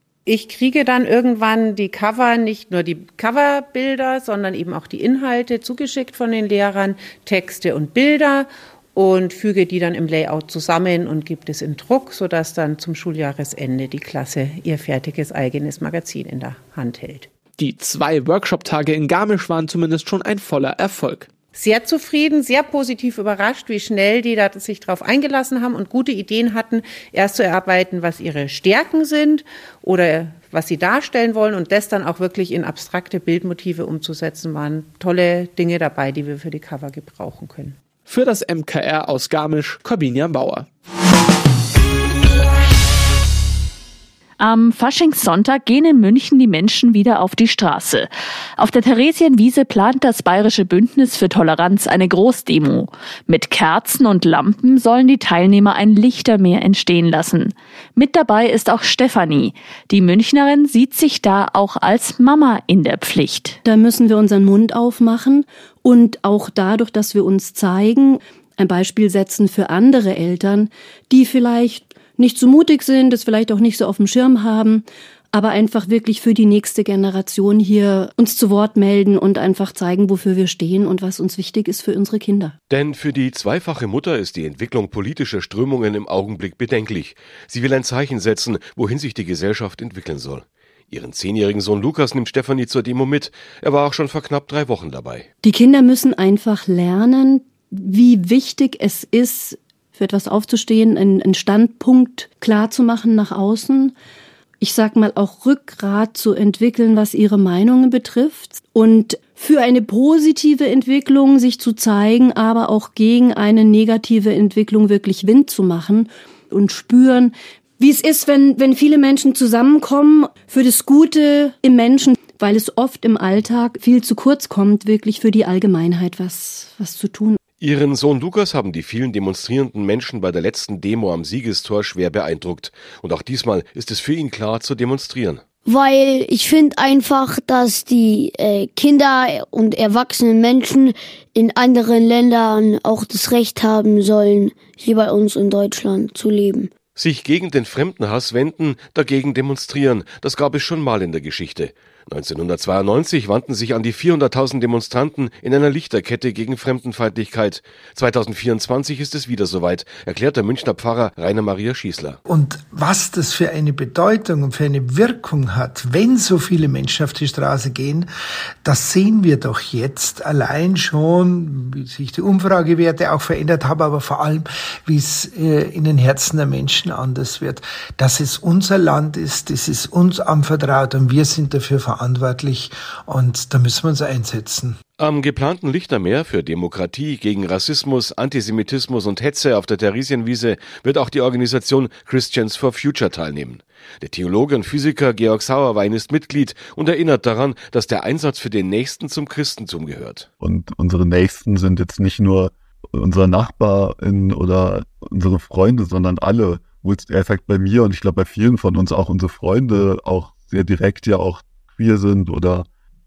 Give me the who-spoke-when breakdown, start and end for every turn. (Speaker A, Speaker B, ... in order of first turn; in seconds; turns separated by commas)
Speaker A: 0.2-17.3, Speaker B: 17.6-21.3, Speaker A: 21.5-37.8, Speaker B: 38.0-40.7, Speaker C: 44.4-63.6, Speaker D: 63.6-82.5, Speaker E: 82.7-95.3, Speaker D: 95.4-103.9, Speaker D: 104.6-127.4, Speaker E: 127.6-135.4, Speaker F: 135.7-140.9, Speaker F: 141.4-146.7, Speaker E: 146.9-162.2, Speaker G: 162.3-168.0, Speaker F: 162.5-168.0, Speaker G: 168.6-184.7, Speaker F: 168.7-171.2, Speaker F: 172.0-174.4, Speaker F: 175.0-182.4, Speaker F: 183.2-184.7, Speaker E: 185.0-200.3, Speaker H: 200.4-212.7